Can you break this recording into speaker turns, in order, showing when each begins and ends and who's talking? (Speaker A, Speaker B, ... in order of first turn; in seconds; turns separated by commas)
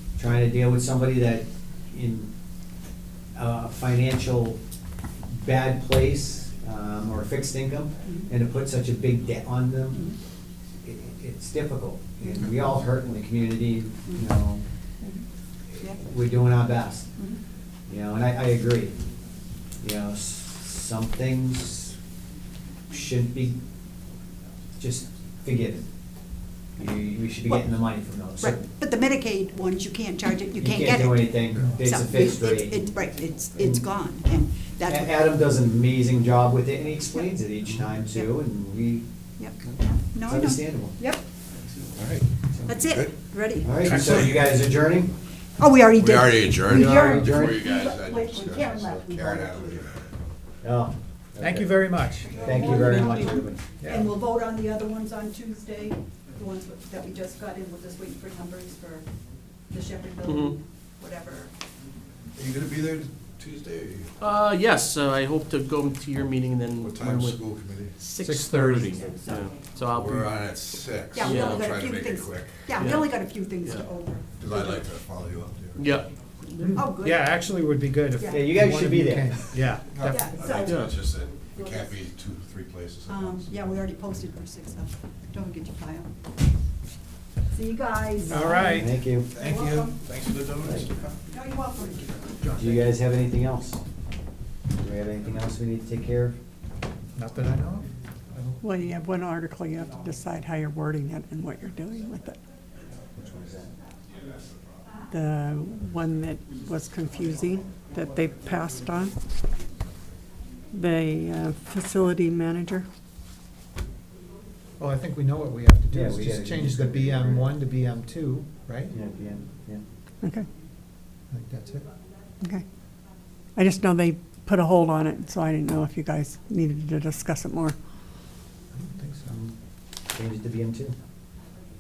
Speaker A: 0.2-2.3, Speaker A: 3.4-4.6, Speaker A: 5.3-10.1, Speaker A: 10.8-14.6, Speaker A: 15.8-17.1, Speaker A: 17.9-18.9, Speaker A: 19.8-21.9, Speaker A: 22.9-23.6, Speaker A: 24.8-25.9, Speaker A: 26.8-28.6, Speaker B: 28.4-35.1, Speaker A: 30.6-33.1, Speaker A: 33.6-33.8, Speaker A: 34.9-39.0, Speaker B: 39.4-41.2, Speaker A: 40.3-41.0, Speaker C: 42.0-42.2, Speaker A: 42.5-42.8, Speaker B: 42.7-43.7, Speaker A: 43.6-45.1, Speaker D: 43.8-44.4, Speaker B: 45.6-49.8, Speaker C: 46.0-50.0, Speaker A: 46.7-47.6, Speaker A: 50.6-51.7, Speaker D: 51.4-52.4, Speaker B: 52.3-59.1, Speaker A: 52.3-53.6, Speaker D: 53.8-54.1, Speaker B: 59.7-61.5, Speaker E: 60.2-60.6, Speaker C: 62.4-64.0, Speaker E: 64.2-70.3, Speaker C: 66.8-67.9, Speaker D: 68.2-69.2, Speaker C: 70.0-72.6, Speaker B: 71.1-74.3, Speaker E: 71.2-71.7, Speaker E: 72.8-73.8, Speaker C: 74.4-75.8, Speaker E: 75.8-76.8, Speaker D: 76.6-80.2, Speaker B: 76.6-77.3, Speaker A: 78.3-79.3, Speaker C: 79.9-83.4, Speaker B: 80.0-80.9, Speaker E: 80.6-81.0, Speaker B: 81.5-81.9, Speaker B: 83.1-86.1, Speaker B: 87.5-90.1, Speaker D: 88.3-89.0, Speaker A: 88.7-89.3, Speaker C: 89.5-91.1, Speaker A: 90.6-90.9, Speaker B: 91.3-92.4, Speaker D: 92.5-92.7, Speaker A: 92.5-93.8, Speaker A: 94.8-96.4, Speaker D: 97.2-98.6, Speaker F: 98.6-102.4, Speaker A: 103.2-103.7, Speaker F: 105.1-109.2, Speaker F: 110.7-112.9, Speaker D: 114.8-118.9, Speaker A: 115.9-117.5, Speaker A: 118.9-119.8, Speaker F: 120.2-120.5, Speaker D: 121.3-121.9, Speaker F: 123.6-127.8, Speaker D: 128.7-129.3, Speaker A: 129.3-129.6, Speaker A: 130.1-130.9